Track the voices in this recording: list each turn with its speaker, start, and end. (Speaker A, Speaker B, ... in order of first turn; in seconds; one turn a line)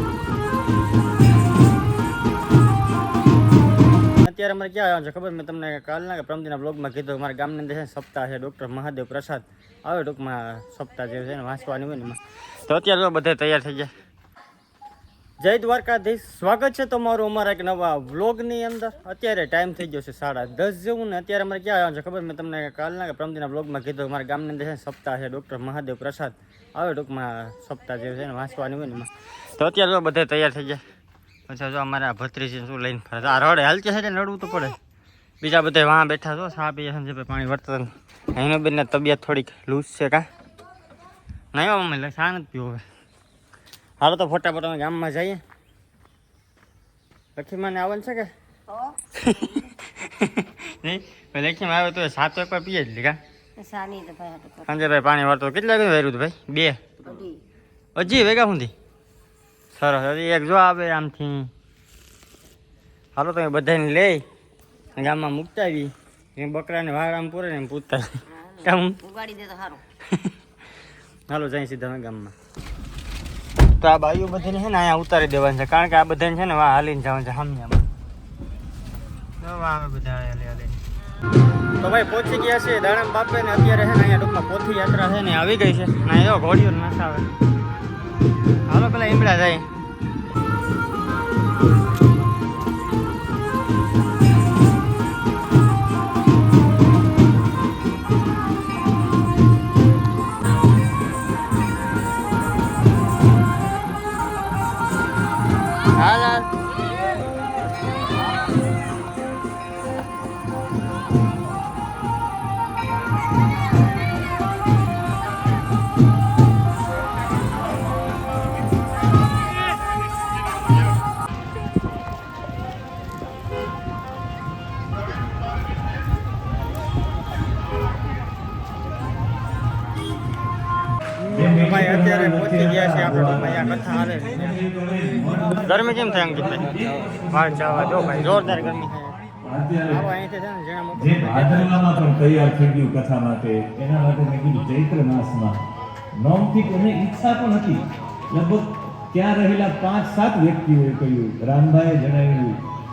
Speaker A: 4.2-13.9
Speaker A: 15.4-30.8
Speaker A: 31.5-34.8
Speaker A: 35.4-40.2
Speaker A: 41.5-42.8
Speaker A: 44.0-45.4
Speaker A: 47.4-48.3
Speaker B: 48.7-49.7
Speaker A: 49.2-53.2
Speaker B: 53.6-54.8
Speaker A: 54.7-56.8
Speaker B: 57.0-57.4
Speaker A: 57.9-58.7
Speaker A: 59.7-61.5
Speaker A: 63.1-64.2
Speaker A: 65.0-69.0
Speaker B: 68.4-69.8
Speaker A: 71.3-72.3
Speaker A: 73.8-77.8
Speaker A: 79.4-80.8
Speaker A: 81.8-87.3
Speaker A: 88.7-89.7
Speaker A: 106.0-106.4
Speaker C: 131.3-138.9
Speaker A: 131.3-134.6
Speaker A: 135.6-136.7
Speaker A: 137.3-139.2
Speaker C: 139.4-140.0
Speaker A: 139.9-142.0
Speaker C: 141.0-145.6
Speaker C: 146.1-152.6